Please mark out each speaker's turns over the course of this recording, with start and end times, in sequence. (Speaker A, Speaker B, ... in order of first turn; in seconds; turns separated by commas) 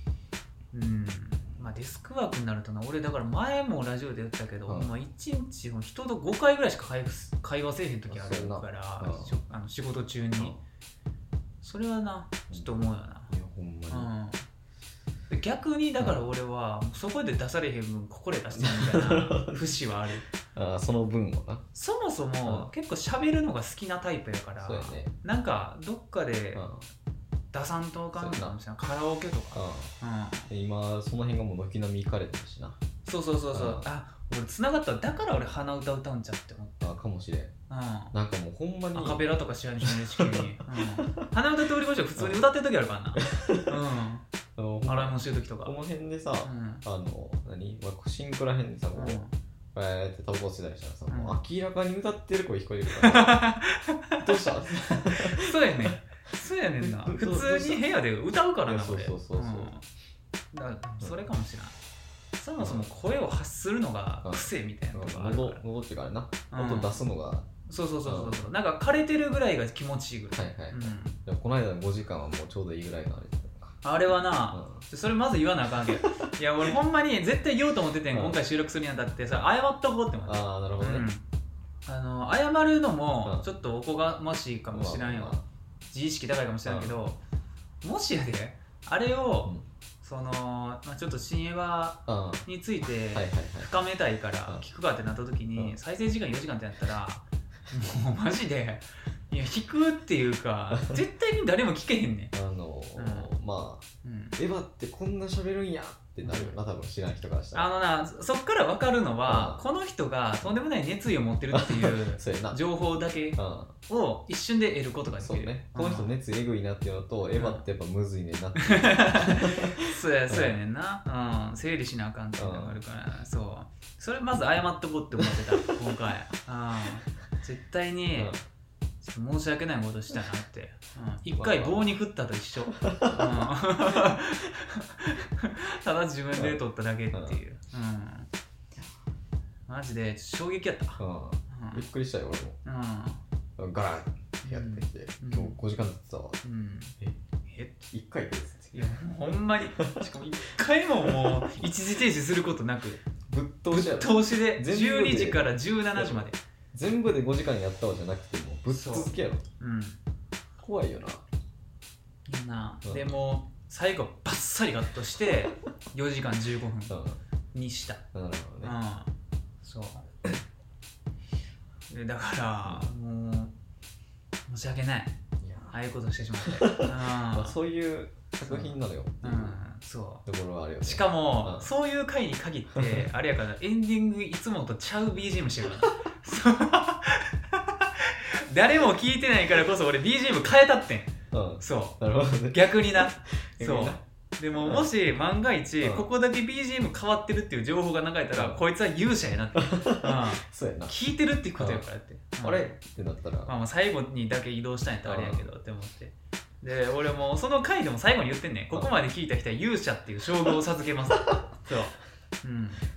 Speaker A: 0.7-10.6, Speaker B: 4.7-4.9, Speaker B: 8.1-9.4, Speaker A: 11.6-13.3, Speaker B: 13.3-14.1, Speaker A: 13.9-14.4, Speaker A: 15.3-20.2, Speaker B: 16.0-16.2, Speaker B: 18.5-19.6, Speaker B: 20.5-21.6, Speaker A: 21.7-26.6, Speaker B: 24.6-25.1, Speaker B: 26.5-26.9, Speaker A: 27.5-30.5, Speaker B: 28.1-28.6, Speaker B: 29.5-29.9, Speaker B: 30.5-32.8, Speaker A: 33.0-36.9, Speaker B: 33.5-33.8, Speaker B: 36.8-37.5, Speaker A: 37.7-38.1, Speaker B: 38.1-39.2, Speaker A: 38.9-44.2, Speaker B: 39.8-41.3, Speaker B: 42.1-42.5, Speaker B: 43.2-43.8, Speaker B: 44.5-49.2, Speaker A: 44.9-45.7, Speaker A: 46.4-46.8, Speaker A: 48.9-49.3, Speaker B: 49.7-53.4, Speaker A: 51.1-51.4, Speaker A: 53.0-54.3, Speaker B: 54.2-56.0, Speaker A: 55.1-59.8, Speaker B: 56.8-57.8, Speaker B: 58.6-59.7, Speaker A: 60.5-61.7, Speaker A: 62.4-65.6, Speaker B: 62.6-62.9, Speaker B: 64.2-67.5, Speaker A: 66.5-67.0, Speaker A: 67.6-71.2, Speaker B: 68.0-68.4, Speaker B: 70.3-73.8, Speaker A: 73.8-81.2, Speaker B: 74.5-74.8, Speaker B: 75.8-76.1, Speaker B: 78.1-78.4, Speaker B: 80.2-81.1, Speaker A: 81.8-85.4, Speaker B: 84.7-85.4, Speaker A: 85.9-87.2, Speaker B: 86.6-87.0, Speaker A: 87.8-102.3, Speaker B: 92.1-92.4, Speaker B: 93.1-93.7, Speaker B: 100.7-101.0, Speaker B: 102.3-103.8, Speaker A: 103.0-103.3, Speaker A: 104.0-104.3, Speaker B: 104.3-107.7, Speaker A: 106.2-106.5, Speaker A: 107.5-116.1, Speaker B: 109.2-109.7, Speaker B: 111.5-112.6, Speaker B: 113.3-113.7, Speaker B: 115.2-120.5, Speaker A: 117.4-117.6, Speaker A: 118.6-128.3, Speaker B: 122.4-122.8, Speaker B: 125.2-125.4, Speaker B: 128.1-128.4, Speaker A: 129.0-138.3, Speaker B: 131.3-131.9, Speaker B: 132.7-133.5, Speaker B: 136.3-136.6, Speaker B: 137.1-137.4, Speaker A: 139.7-141.8, Speaker B: 141.0-142.6, Speaker A: 142.6-143.2, Speaker B: 143.6-146.4, Speaker A: 144.4-145.6, Speaker A: 146.4-146.9, Speaker A: 147.4-147.8, Speaker B: 147.9-150.1, Speaker A: 148.7-153.1, Speaker B: 151.0-151.5, Speaker B: 153.2-159.4, Speaker A: 153.7-156.4, Speaker A: 158.7-160.0, Speaker B: 160.6-161.2, Speaker A: 162.3-167.0, Speaker B: 162.8-163.2, Speaker B: 166.9-167.2, Speaker A: 167.5-168.0, Speaker B: 168.1-168.7, Speaker A: 168.6-169.1, Speaker A: 169.6-170.1, Speaker A: 171.9-173.5, Speaker A: 174.5-175.2, Speaker B: 175.4-175.8, Speaker A: 175.7-177.6, Speaker B: 176.4-179.6, Speaker A: 178.4-180.2, Speaker B: 180.2-181.7, Speaker A: 180.8-192.0, Speaker B: 182.7-183.1, Speaker B: 191.3-194.0, Speaker A: 192.5-202.8, Speaker B: 194.6-194.9, Speaker B: 195.8-196.1, Speaker B: 198.3-198.6, Speaker B: 199.6-200.9, Speaker B: 201.6-201.9, Speaker B: 202.4-203.5, Speaker A: 203.4-212.9, Speaker B: 205.0-205.5